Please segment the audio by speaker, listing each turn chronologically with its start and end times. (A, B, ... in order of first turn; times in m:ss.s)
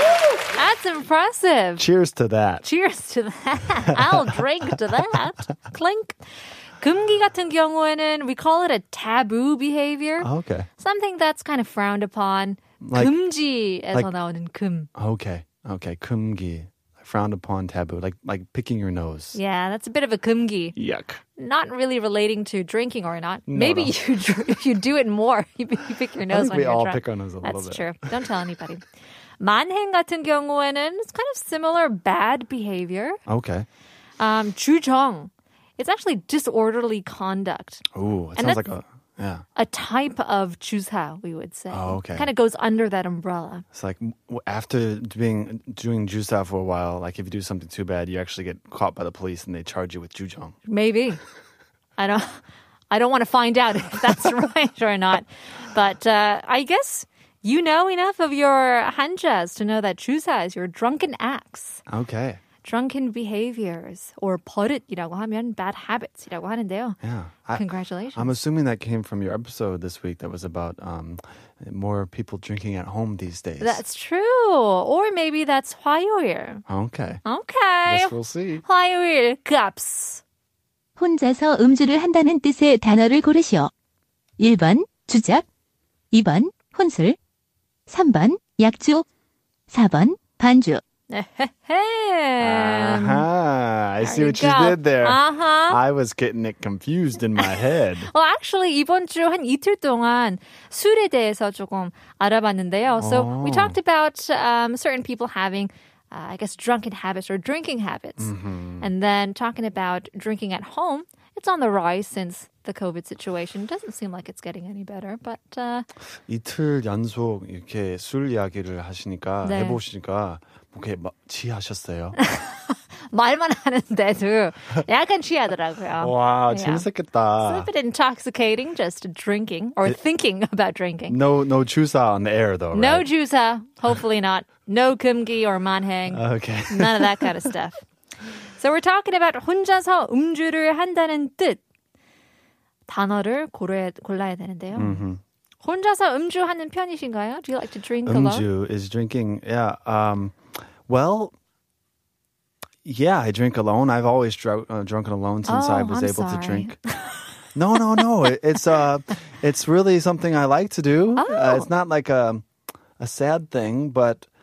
0:00.4-0:01.8 A
0:01.8-0:02.6 B
0:02.6-0:06.2 A
0:03.9-0:04.3 B
0:06.8-0:14.9 A
0:10.2-0:10.7 B
0:12.8-0:13.1 B
0:14.9-0:19.4 B
0:19.3-0:20.8 A
0:20.7-0:21.2 B
0:21.4-0:28.8 A
0:23.5-0:23.9 B
0:26.3-0:28.4 B
0:29.4-0:33.2 A
0:33.3-0:33.6 B
0:34.2-0:37.8 A
0:37.9-0:39.4 B
0:38.4-0:38.6 A
0:39.6-0:43.6 A
0:41.7-0:42.3 B
0:43.7-0:50.6 B
0:50.7-0:51.2 A
0:52.0-1:01.8 A
1:01.9-1:02.4 B
1:02.6-1:07.0 A
1:07.0-1:13.8 B
1:07.5-1:08.3 A
1:13.6-1:16.6 A
1:16.7-1:17.2 B
1:17.2-1:20.2 A
1:17.8-1:18.6 B
1:21.0-1:23.7 C
1:24.4-1:25.4 C
1:26.1-1:27.2 C
1:27.9-1:29.0 C
1:29.7-1:30.8 C
1:31.1-1:33.2 A
1:32.4-1:38.1 B
1:34.0-1:35.8 A
1:37.4-1:55.9 A
1:43.0-1:43.8 B
1:48.2-1:48.9 B
1:56.3-2:02.2 B
1:59.4-1:59.8 A
2:02.2-2:06.8 A
2:06.0-2:07.7 B
2:07.4-2:11.2 A
2:11.1-2:13.1 B
2:12.7-2:17.8 A
2:16.1-2:17.4 B
2:18.6-2:21.6 A
2:22.9-2:25.0 A
2:24.7-2:25.2 B
2:25.6-2:28.4 A
2:28.0-2:31.3 B
2:32.8-2:36.8 B
2:35.5-2:37.2 A
2:37.5-2:42.5 B
2:41.2-2:41.6 A
2:43.0-2:44.3 B